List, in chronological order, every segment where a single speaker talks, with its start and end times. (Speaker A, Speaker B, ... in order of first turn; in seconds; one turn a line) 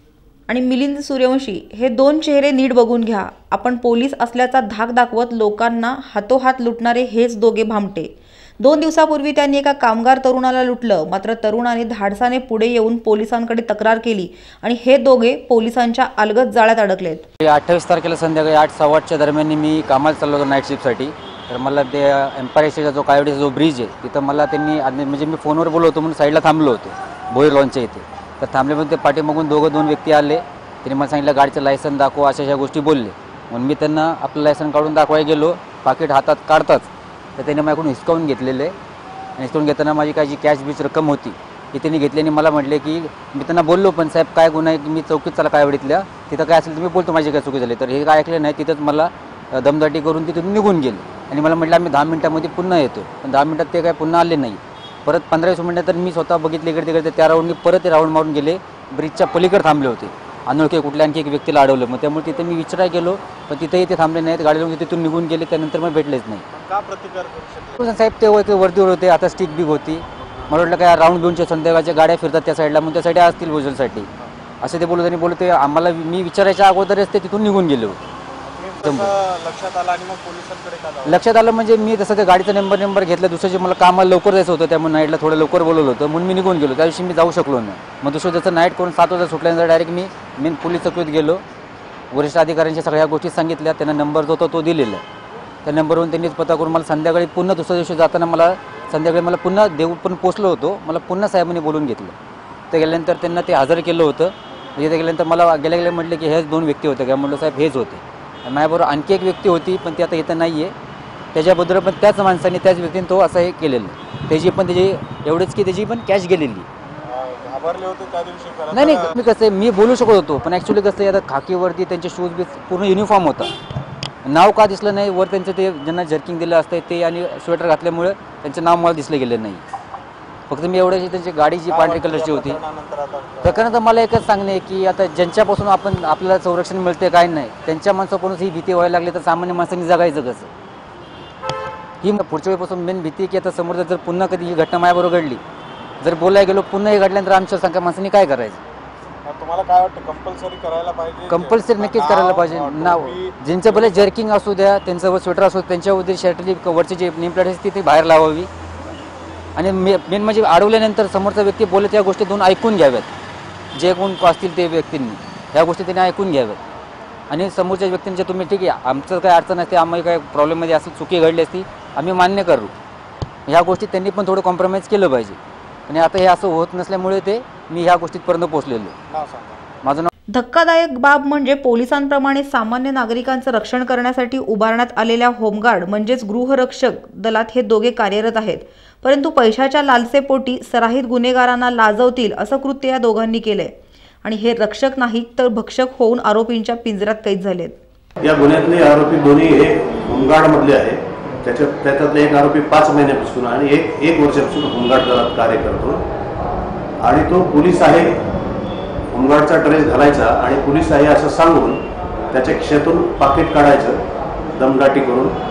Speaker A: 0.5-17.3
Speaker B: 17.4-38.7
Speaker B: 39.4-66.5
Speaker C: 66.5-67.9
Speaker B: 67.8-74.1
Speaker B: 74.6-78.0
Speaker C: 78.5-81.2
Speaker B: 78.8-79.1
Speaker B: 81.0-91.4
Speaker B: 92.1-95.0
Speaker B: 95.7-102.1
Speaker B: 102.7-110.7
Speaker B: 111.3-116.7
Speaker C: 117.0-119.2
Speaker B: 118.7-123.5
Speaker B: 124.2-129.6
Speaker B: 130.5-132.6
Speaker C: 131.7-133.7
Speaker B: 133.4-140.5
Speaker B: 142.0-145.4
Speaker B: 146.0-148.6
Speaker C: 149.2-154.1
Speaker B: 151.3-158.5
Speaker B: 159.6-163.1
Speaker B: 163.8-166.6
Speaker B: 167.3-172.7
Speaker B: 173.5-175.4
Speaker B: 175.9-178.9
Speaker C: 179.1-179.7
Speaker B: 179.8-180.1
Speaker A: 180.3-193.7
Speaker A: 194.2-197.8
Speaker D: 198.2-206.0
Speaker D: 207.0-208.2
Speaker D: 209.1-214.0
Speaker D: 214.6-215.4